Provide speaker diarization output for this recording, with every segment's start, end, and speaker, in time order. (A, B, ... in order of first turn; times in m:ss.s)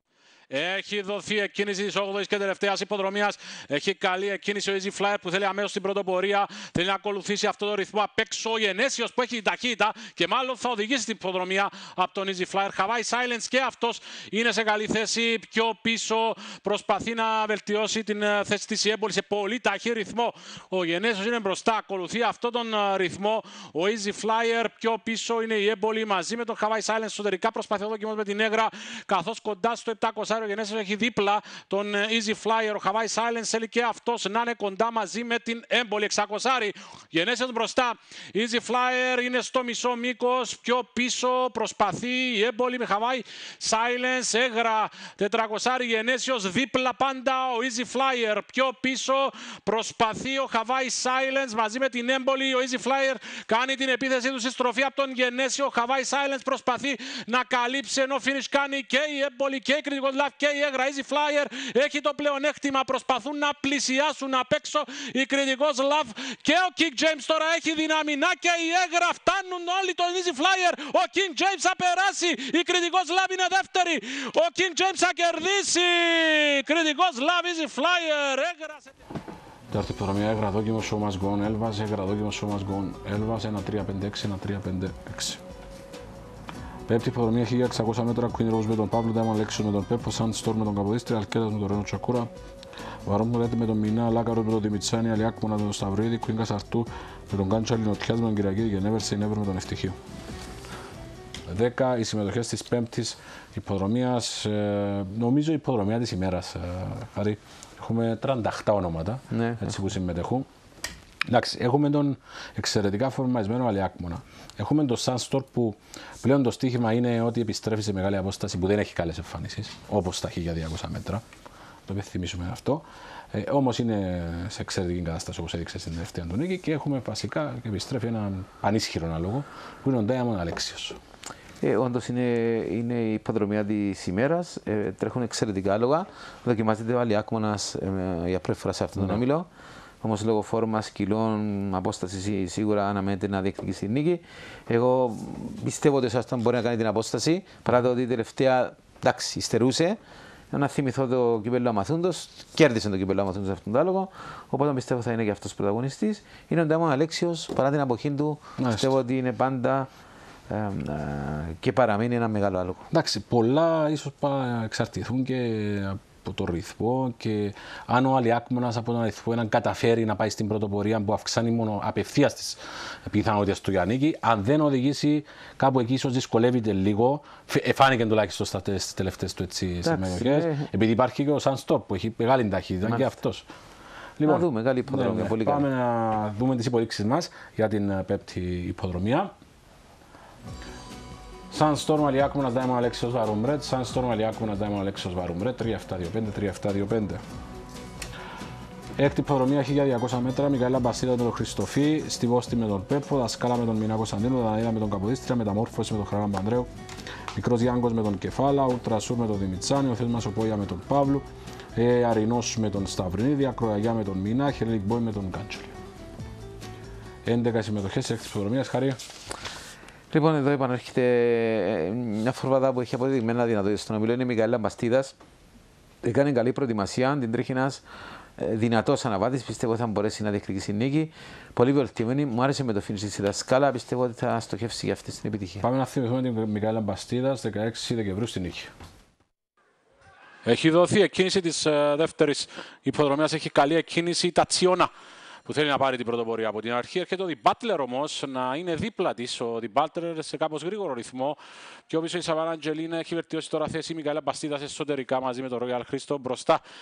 0:00.5-1:18.9 A
1:19.7-1:25.4 B
1:26.9-1:32.3 B
1:33.1-1:40.0 B
1:41.5-1:50.5 B
1:49.3-1:49.6 C
1:51.3-2:01.2 B
2:01.9-2:11.0 B
2:11.6-2:19.5 C
2:20.0-2:30.0 C
2:30.5-2:39.9 C
2:38.6-2:38.9 B
2:40.5-2:42.9 C
2:42.9-3:03.5 B
2:59.8-3:00.7 C
3:02.9-3:03.1 C
3:04.2-3:09.3 B
3:04.2-3:05.6 C
3:11.5-3:17.2 B
3:19.0-3:26.7 B
3:27.4-3:35.7 B
3:37.2-3:39.0 B
3:40.1-3:45.2 C
3:46.0-3:47.8 C
3:48.4-3:55.6 C
3:55.6-3:58.7 B
4:00.4-4:04.9 A
4:05.5-4:16.6 A